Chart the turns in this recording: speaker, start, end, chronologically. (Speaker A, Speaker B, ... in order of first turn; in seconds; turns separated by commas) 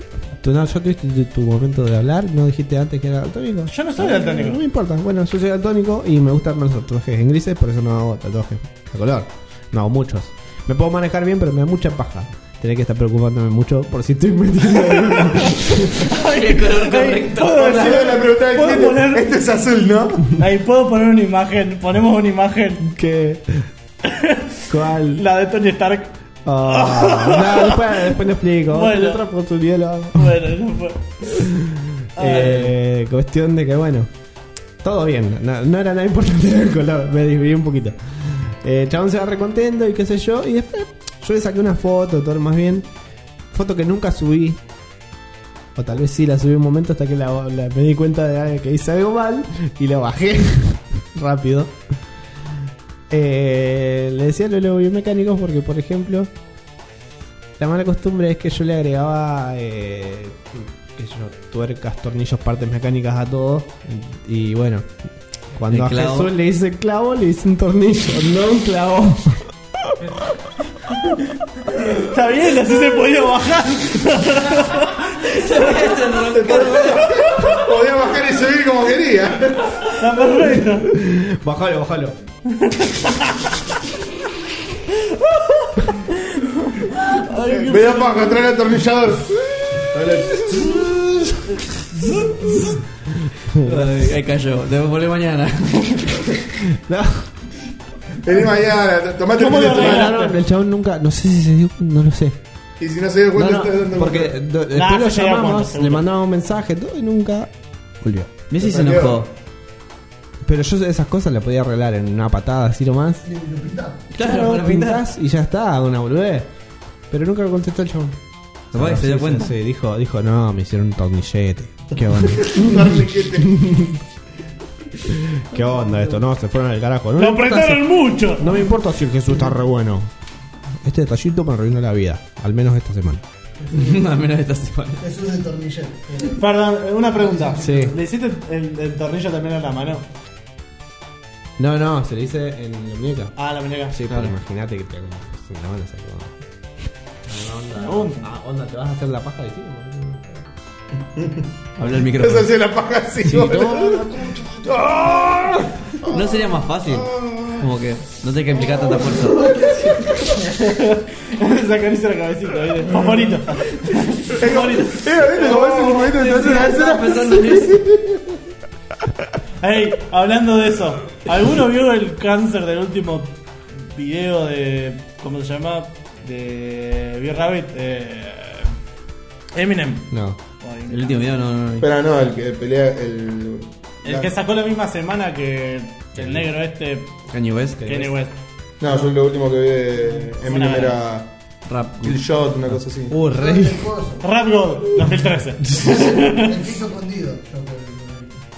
Speaker A: 0.4-16.0, Speaker B: 3.7-4.6, Speaker B: 15.0-19.3, Speaker C: 16.1-18.1, Speaker D: 17.7-20.4, Speaker B: 20.4-22.9, Speaker A: 22.8-23.7, Speaker B: 24.1-26.1, Speaker A: 24.7-25.2, Speaker A: 26.4-30.4, Speaker B: 26.6-28.1, Speaker B: 28.7-29.2, Speaker B: 30.1-31.4, Speaker A: 31.2-34.1, Speaker B: 32.2-32.7, Speaker A: 34.8-42.9, Speaker A: 43.5-44.6, Speaker A: 45.8-51.8, Speaker A: 53.1-56.3, Speaker A: 57.6-65.0, Speaker A: 65.5-70.1, Speaker C: 65.7-66.3, Speaker B: 71.7-75.7, Speaker C: 75.1-77.6, Speaker D: 76.3-80.0, Speaker B: 79.9-80.9, Speaker A: 80.5-82.2, Speaker B: 82.6-83.4, Speaker B: 85.1-88.4, Speaker D: 87.4-90.9, Speaker A: 90.3-92.7, Speaker A: 93.3-93.9, Speaker C: 93.6-96.5, Speaker A: 96.7-97.3, Speaker D: 98.2-100.2, Speaker B: 99.3-100.4, Speaker A: 99.4-102.4, Speaker D: 102.8-104.4, Speaker A: 103.3-108.3, Speaker B: 104.7-106.1, Speaker C: 108.5-109.3, Speaker D: 108.6-109.3, Speaker A: 110.5-113.3, Speaker E: 113.2-114.0, Speaker C: 114.1-115.0, Speaker A: 114.1-116.5, Speaker A: 117.1-118.2, Speaker A: 118.7-124.0, Speaker C: 118.7-119.5, Speaker D: 122.2-123.9, Speaker A: 125.0-130.1, Speaker B: 127.2-128.6, Speaker A: 130.8-133.2, Speaker E: 133.6-134.1, Speaker C: 133.7-135.1, Speaker E: 135.0-136.4, Speaker B: 136.3-140.1, Speaker E: 137.1-138.0, Speaker A: 137.6-137.9, Speaker A: 141.6-143.3, Speaker B: 143.4-144.0, Speaker A: 143.9-146.4, Speaker A: 147.2-150.5, Speaker B: 147.8-148.3, Speaker D: 151.2-151.4, Speaker C: 151.8-152.5, Speaker D: 152.1-157.7, Speaker A: 153.2-154.9, Speaker C: 156.1-159.9, Speaker D: 158.5-160.6, Speaker B: 160.4-165.7, Speaker D: 164.3-168.4, Speaker C: 165.3-167.8, Speaker B: 169.6-178.7, Speaker B: 179.6-181.3, Speaker A: 180.1-180.4, Speaker C: 180.9-181.9, Speaker D: 181.8-184.3, Speaker B: 184.0-187.1, Speaker C: 187.3-187.9, Speaker A: 187.8-188.1, Speaker B: 187.8-188.3, Speaker D: 188.8-191.3, Speaker B: 190.4-191.0, Speaker C: 191.7-192.2, Speaker D: 192.0-193.2, Speaker A: 193.1-193.9, Speaker E: 193.3-194.2, Speaker B: 194.2-196.6, Speaker E: 195.7-198.4